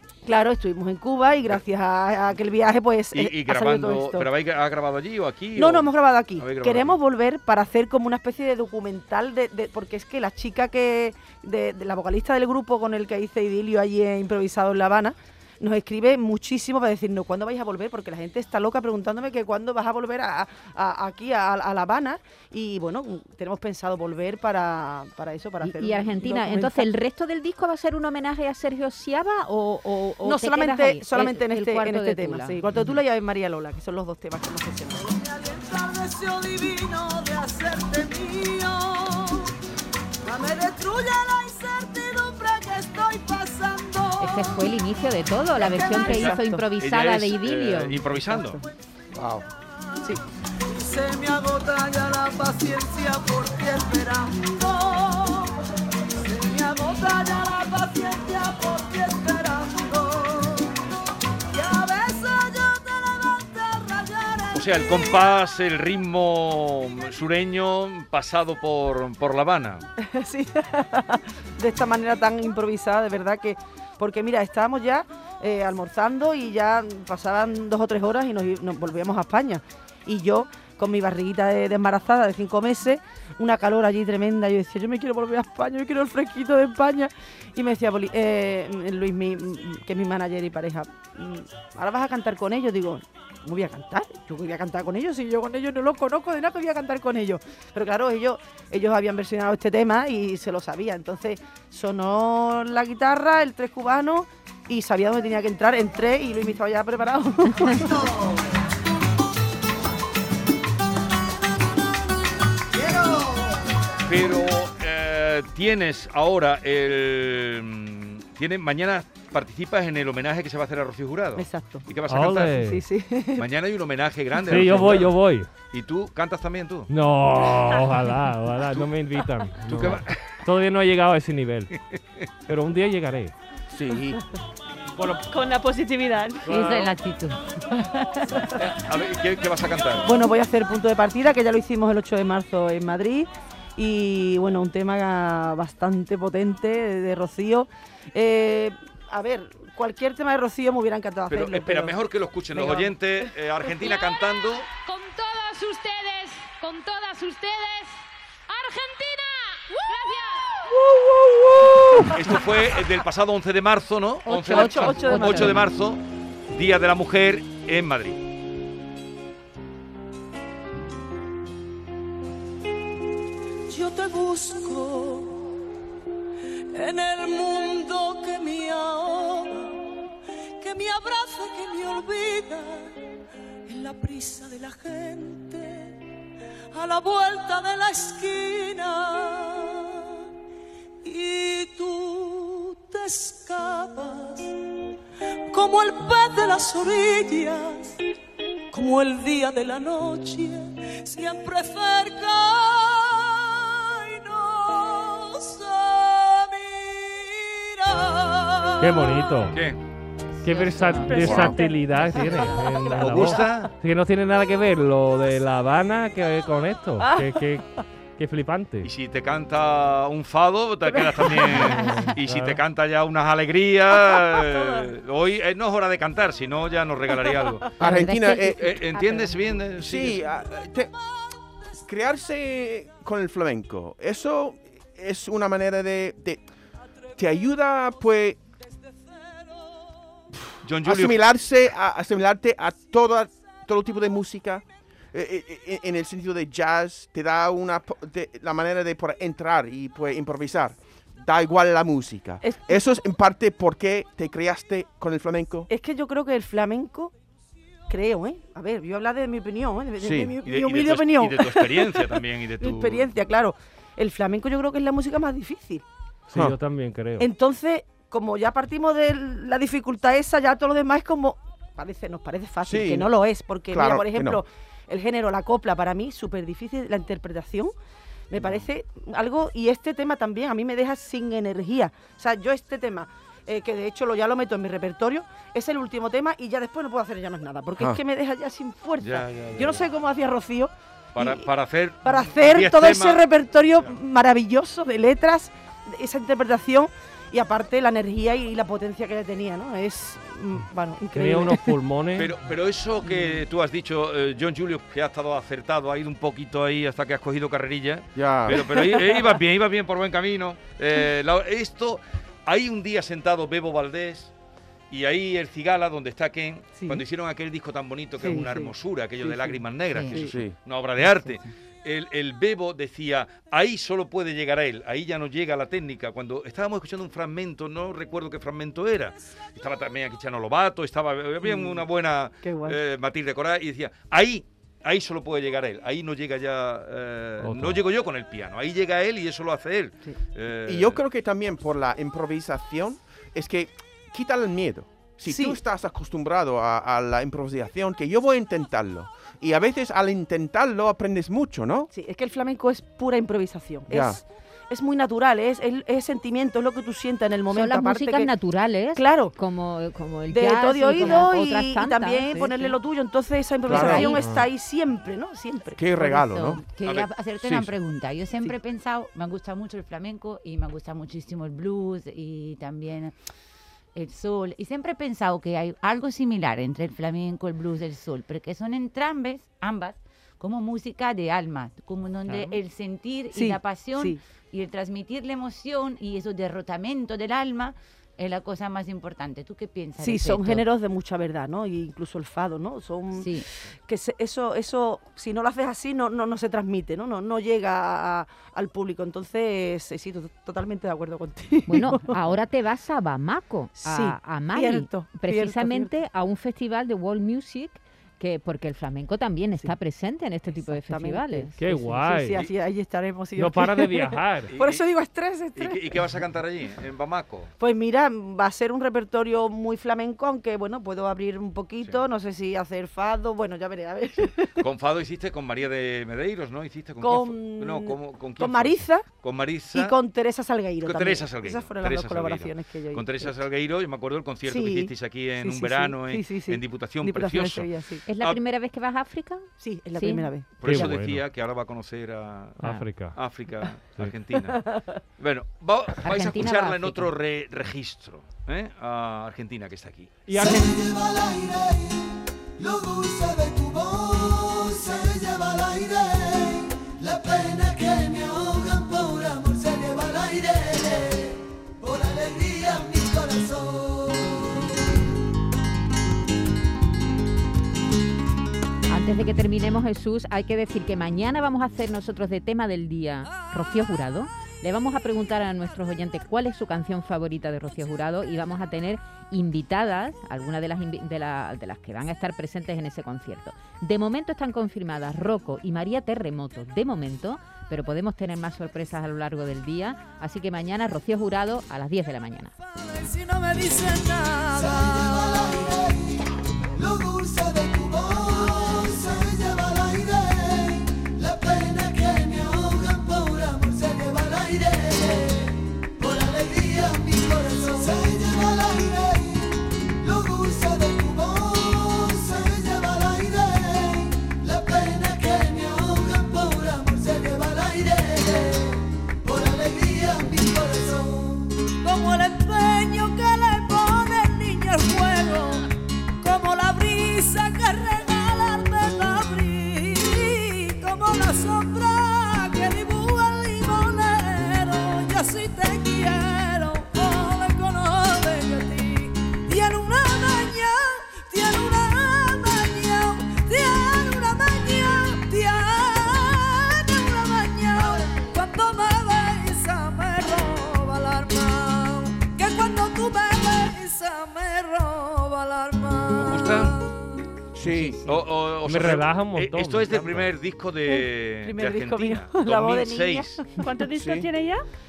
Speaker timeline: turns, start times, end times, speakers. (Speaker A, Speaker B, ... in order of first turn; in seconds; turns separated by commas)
Speaker A: 0.2-4.3, Speaker B: 3.1-7.0, Speaker A: 5.5-26.9, Speaker C: 25.6-32.6, Speaker A: 30.2-35.2, Speaker D: 35.1-39.5, Speaker D: 40.2-44.5, Speaker C: 44.2-48.0, Speaker D: 45.6-46.1, Speaker A: 45.9-46.6, Speaker B: 46.1-48.6, Speaker A: 48.0-48.6, Speaker D: 50.7-55.5, Speaker D: 56.2-60.7, Speaker D: 61.5-65.1, Speaker B: 64.5-69.8, Speaker A: 70.0-108.3, Speaker B: 114.0-122.6, Speaker A: 121.3-121.9, Speaker E: 122.1-122.8, Speaker A: 122.5-123.5, Speaker B: 123.4-125.2, Speaker E: 124.4-125.5, Speaker B: 125.7-126.9, Speaker E: 126.9-131.7, Speaker B: 128.7-130.4, Speaker B: 131.9-132.2, Speaker E: 132.5-133.3, Speaker F: 133.7-134.2, Speaker E: 134.9-135.3, Speaker G: 135.3-136.5, Speaker E: 136.4-137.0, Speaker H: 136.5-138.5, Speaker B: 138.6-140.1, Speaker A: 140.0-152.0, Speaker B: 151.3-154.7, Speaker A: 152.5-152.9, Speaker I: 154.8-160.5, Speaker B: 162.1-168.2, Speaker C: 164.3-165.7, Speaker A: 164.3-165.7, Speaker D: 173.7-175.5, Speaker D: 176.7-180.0, Speaker D: 180.6-183.0, Speaker D: 183.7-186.0, Speaker D: 186.7-190.2, Speaker D: 191.0-194.6, Speaker D: 195.5-198.0, Speaker D: 198.7-209.3, Speaker E: 208.8-209.6, Speaker B: 209.5-209.8, Speaker H: 210.3-211.1, Speaker E: 210.4-218.9, Speaker G: 210.9-212.7, Speaker H: 212.0-212.6, Speaker A: 212.7-213.7, Speaker B: 213.0-213.7, Speaker A: 217.0-217.4, Speaker B: 218.8-227.7, Speaker H: 221.2-222.1, Speaker E: 221.7-222.6, Speaker F: 227.8-228.7, Speaker C: 227.8-229.4, Speaker B: 228.6-230.2, Speaker F: 229.8-230.9, Speaker F: 231.8-236.4, Speaker F: 237.2-238.4, Speaker F: 240.3-255.7, Speaker B: 240.6-241.2, Speaker A: 252.4-252.8, Speaker A: 255.7-257.1, Speaker A: 257.9-265.8, Speaker F: 260.0-260.3, Speaker B: 260.4-263.1, Speaker E: 266.3-267.3, Speaker A: 267.2-277.7, Speaker F: 272.6-273.1, Speaker F: 273.7-274.4, Speaker A: 278.3-291.5, Speaker B: 289.0-289.9, Speaker B: 291.1-293.2, Speaker A: 292.0-301.8, Speaker E: 301.1-302.3, Speaker B: 302.1-314.3, Speaker F: 308.1-308.6, Speaker A: 308.5-308.9, Speaker B: 314.9-341.0, Speaker A: 318.2-319.6, Speaker H: 319.9-320.3, Speaker F: 320.2-320.6, Speaker A: 331.4-331.9, Speaker A: 332.4-332.8, Speaker E: 337.4-337.8, Speaker F: 340.6-351.9, Speaker A: 345.2-345.6, Speaker A: 351.9-358.3, Speaker F: 353.9-354.2, Speaker C: 357.5-362.8, Speaker A: 358.9-359.3, Speaker A: 360.3-366.2, Speaker C: 363.6-364.2, Speaker F: 363.7-364.1, Speaker E: 364.1-364.4, Speaker F: 365.8-366.6, Speaker H: 366.1-373.1, Speaker B: 366.8-367.7, Speaker H: 373.9-390.6, Speaker C: 382.3-382.6, Speaker A: 383.3-384.2, Speaker A: 390.0-402.1, Speaker H: 393.1-393.4, Speaker C: 401.7-411.6, Speaker A: 403.8-405.9, Speaker A: 410.5-416.0, Speaker E: 411.6-412.5, Speaker E: 413.3-414.5, Speaker B: 414.5-414.9, Speaker B: 415.5-417.5, Speaker A: 417.6-424.7, Speaker B: 424.6-430.0, Speaker A: 427.0-429.1, Speaker A: 429.7-433.4, Speaker B: 430.8-438.4, Speaker A: 434.4-438.0, Speaker C: 438.1-440.3, Speaker A: 439.6-440.9, Speaker B: 440.6-450.1, Speaker E: 440.6-441.2, Speaker E: 442.6-443.2, Speaker C: 446.0-447.1, Speaker E: 450.3-451.1, Speaker C: 468.9-492.5, Speaker D: 492.8-495.7, Speaker F: 507.7-509.0, Speaker D: 514.2-518.7, Speaker A: 515.2-515.5, Speaker D: 519.3-521.2, Speaker D: 521.8-525.6, Speaker D: 526.2-556.9, Speaker A: 556.1-556.7, Speaker B: 556.1-556.8, Speaker F: 557.5-558.0, Speaker B: 557.6-563.5, Speaker E: 558.6-560.3, Speaker A: 560.9-563.6, Speaker G: 563.6-564.6, Speaker F: 564.0-564.3